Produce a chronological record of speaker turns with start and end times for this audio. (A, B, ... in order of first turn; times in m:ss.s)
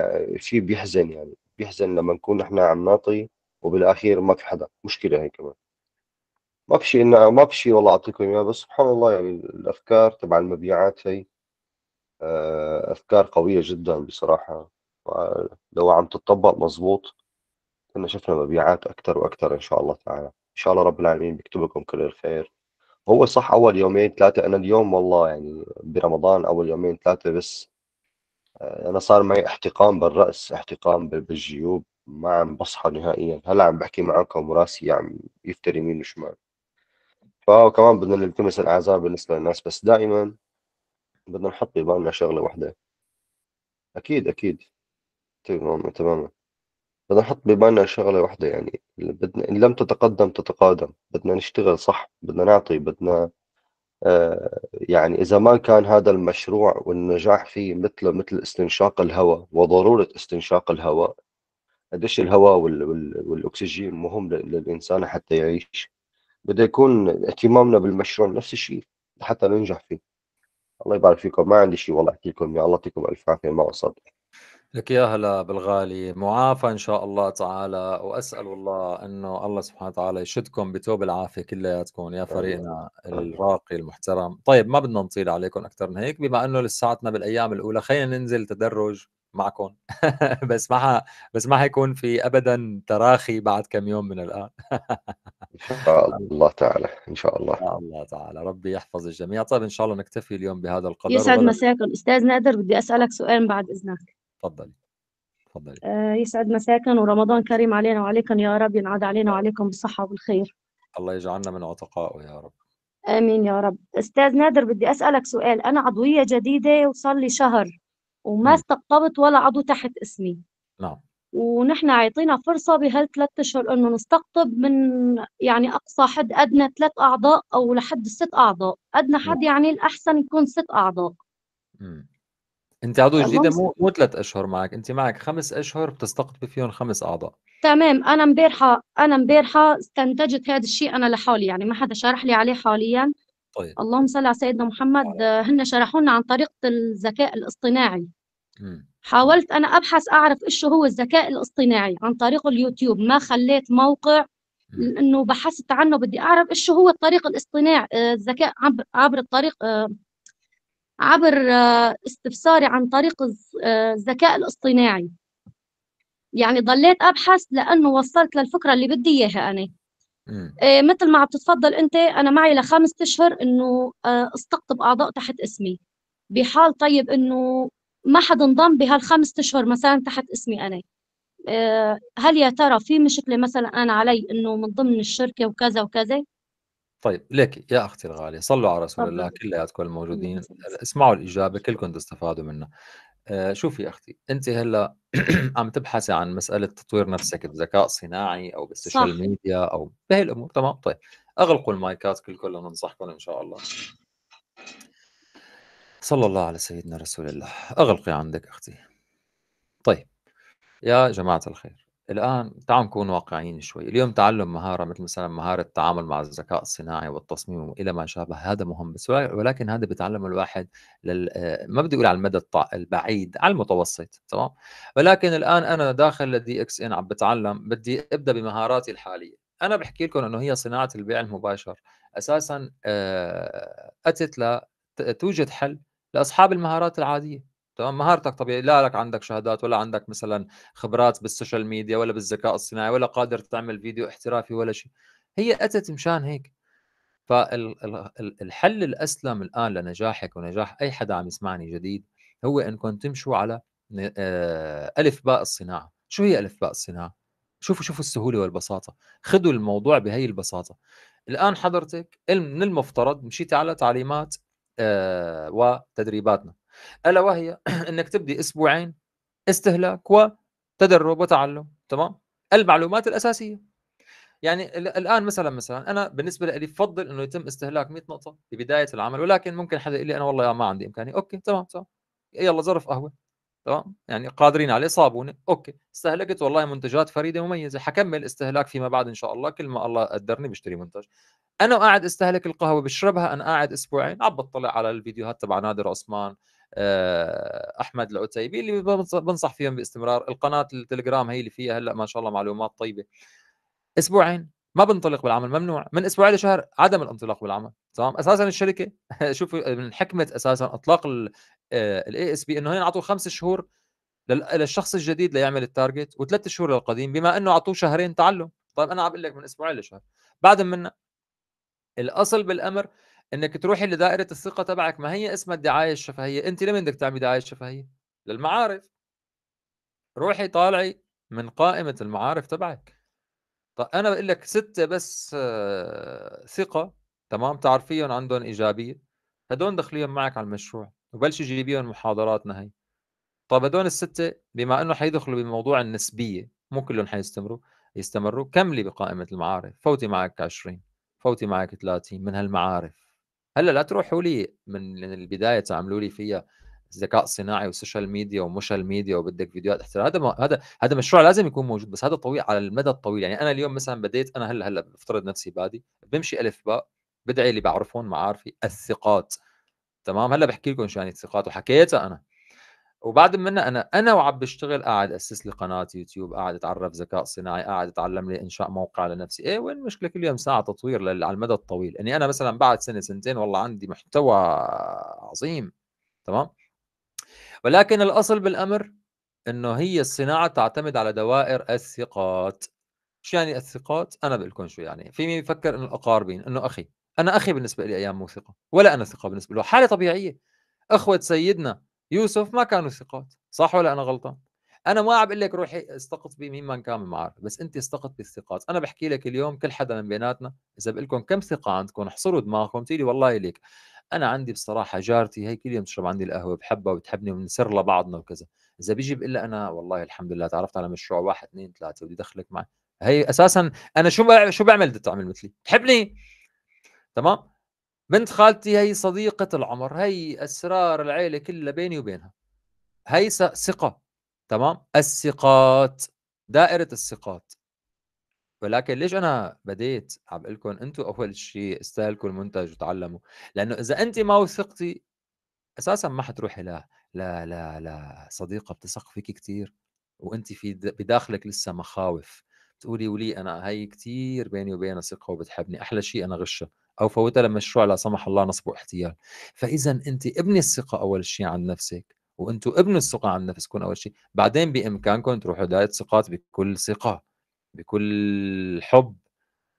0:00.4-0:05.5 A
0:06.7-0:11.2 A
0:12.3-0:17.1 A
0:18.0-0:22.5 A
0:23.1-0:27.7 A
0:28.9-0:36.4 A
0:37.5-0:40.3 A
0:41.3-0:42.7 A
0:44.0-0:44.6 A
0:45.5-0:46.3 A
0:47.1-0:53.3 A
0:54.1-1:01.1 A
1:02.0-1:05.9 A
1:06.5-1:10.0 A
1:10.9-1:14.0 A
1:14.8-1:29.8 B
1:22.3-1:23.3 A
1:30.5-1:35.1 B
1:35.6-1:37.6 A
1:37.6-1:41.6 B
1:41.1-1:44.1 C
1:44.4-1:44.7 B
1:45.6-1:45.8 B
1:45.8-1:50.5 C
1:51.0-1:52.5 B
1:53.1-1:57.7 C
1:58.3-2:00.4 C
2:01.4-2:11.1 C
2:11.8-2:12.1 B
2:12.9-2:17.3 B
2:13.2-2:13.6 C
2:17.6-2:23.1 C
2:23.8-2:28.1 C
2:28.6-2:29.4 B
2:29.0-2:34.2 C
2:34.8-2:39.9 C
2:41.0-2:45.1 C
2:46.4-2:49.7 C
2:50.3-2:50.5 B
2:50.7-2:55.8 C
2:56.3-3:00.8 C
3:01.5-3:06.2 C
3:07.0-3:12.7 B
3:09.0-3:09.3 C
3:10.1-3:10.6 C
3:13.3-3:23.6 B
3:18.8-3:19.2 C
3:26.0-3:28.8 B
3:30.9-4:06.5 B
4:07.3-4:17.1 B
4:17.6-4:20.8 B
4:21.3-4:26.6 B
4:27.1-4:28.9 B
4:29.5-4:33.6 B
4:34.4-4:41.8 B
4:42.4-4:43.1 B
4:43.7-4:51.1 B
4:51.6-5:03.1 B
5:04.0-5:11.3 B
5:11.8-5:13.6 B
5:14.3-5:20.9 B
5:22.0-5:28.9 B
5:30.2-5:32.9 B
5:33.8-5:39.0 B
5:39.5-5:42.7 B
5:43.5-5:53.0 B
5:53.6-5:56.4 B
5:56.9-6:09.4 B
6:10.1-6:12.2 B
6:13.1-6:25.7 B
6:27.7-6:28.9 B
6:29.5-6:32.7 B
6:33.2-6:40.4 B
6:41.0-6:44.4 B
6:44.9-6:53.6 B
6:54.1-7:06.1 B
7:08.1-7:12.3 B
7:13.1-7:14.0 B
7:14.5-7:17.5 B
7:18.6-7:25.0 B
7:25.8-7:29.7 B
7:30.2-7:47.2 B
7:47.8-7:49.2 B